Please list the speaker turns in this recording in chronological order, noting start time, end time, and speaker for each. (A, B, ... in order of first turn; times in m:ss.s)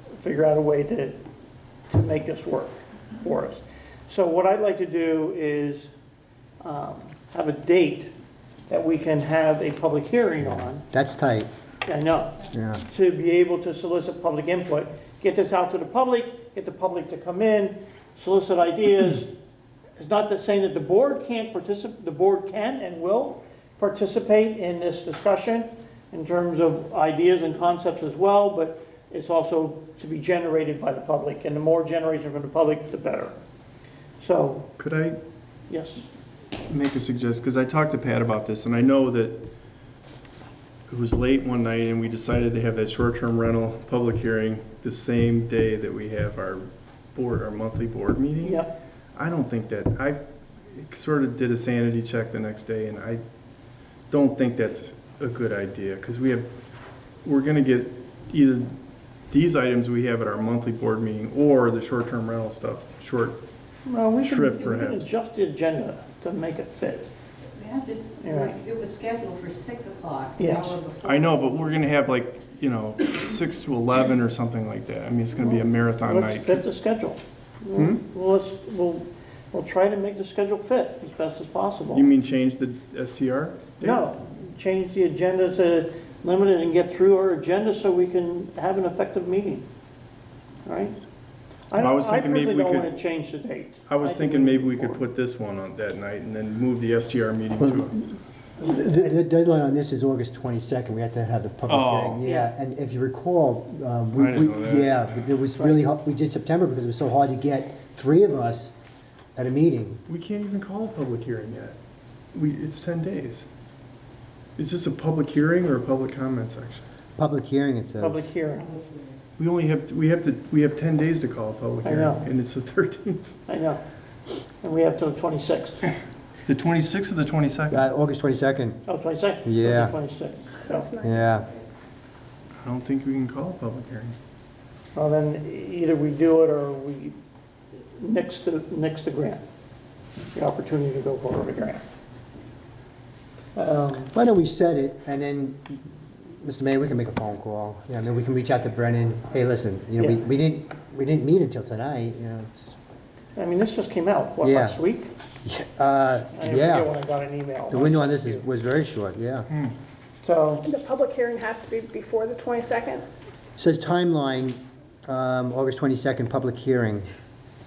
0:00.1-0:01.2 A
0:01.9-0:05.9 A
0:06.6-0:08.1 A
0:08.7-0:10.8 A
0:10.4-0:11.5 B
0:11.8-0:19.3 A
0:12.5-0:12.8 B
0:20.0-0:33.4 A
0:34.2-0:34.6 A
0:34.8-0:35.2 C
0:35.7-0:36.0 A
0:36.7-0:39.4 C
0:40.9-0:48.6 C
0:48.4-0:48.7 A
0:49.1-0:50.2 C
0:50.7-0:53.2 C
0:54.1-0:56.5 C
0:57.2-0:58.7 C
0:59.3-1:03.4 C
1:03.8-1:07.1 A
1:04.2-1:05.1 C
1:07.6-1:11.4 D
1:08.2-1:08.6 A
1:10.4-1:10.8 A
1:11.0-1:16.6 C
1:16.0-1:22.0 A
1:21.9-1:24.1 C
1:23.8-1:29.6 A
1:30.6-1:31.0 A
1:31.7-1:35.0 A
1:31.8-1:32.9 C
1:33.9-1:37.9 C
1:37.6-1:48.7 B
1:38.6-1:39.0 A
1:41.7-1:42.2 C
1:44.1-1:45.1 C
1:49.4-1:50.0 B
1:50.1-1:51.8 C
1:52.3-1:53.4 C
1:54.6-1:56.8 C
1:57.2-1:58.3 B
1:58.0-1:58.7 A
1:59.4-2:03.4 C
2:01.8-2:02.2 A
2:03.5-2:03.8 A
2:04.6-2:05.9 A
2:06.4-2:07.8 C
2:07.7-2:08.8 B
2:08.8-2:10.9 A
2:09.4-2:09.9 B
2:10.6-2:11.3 E
2:11.0-2:11.5 B
2:12.6-2:14.1 C
2:14.9-2:17.2 A
2:18.0-2:19.4 A
2:20.3-2:21.8 A
2:23.6-2:24.1 A
2:24.1-2:32.7 B
2:33.4-2:35.1 A
2:34.4-2:34.8 B
2:35.4-2:36.9 B
2:36.3-2:38.4 A
2:37.7-2:39.5 B
2:40.2-2:40.7 A
2:40.6-2:43.0 E
2:43.6-2:47.1 B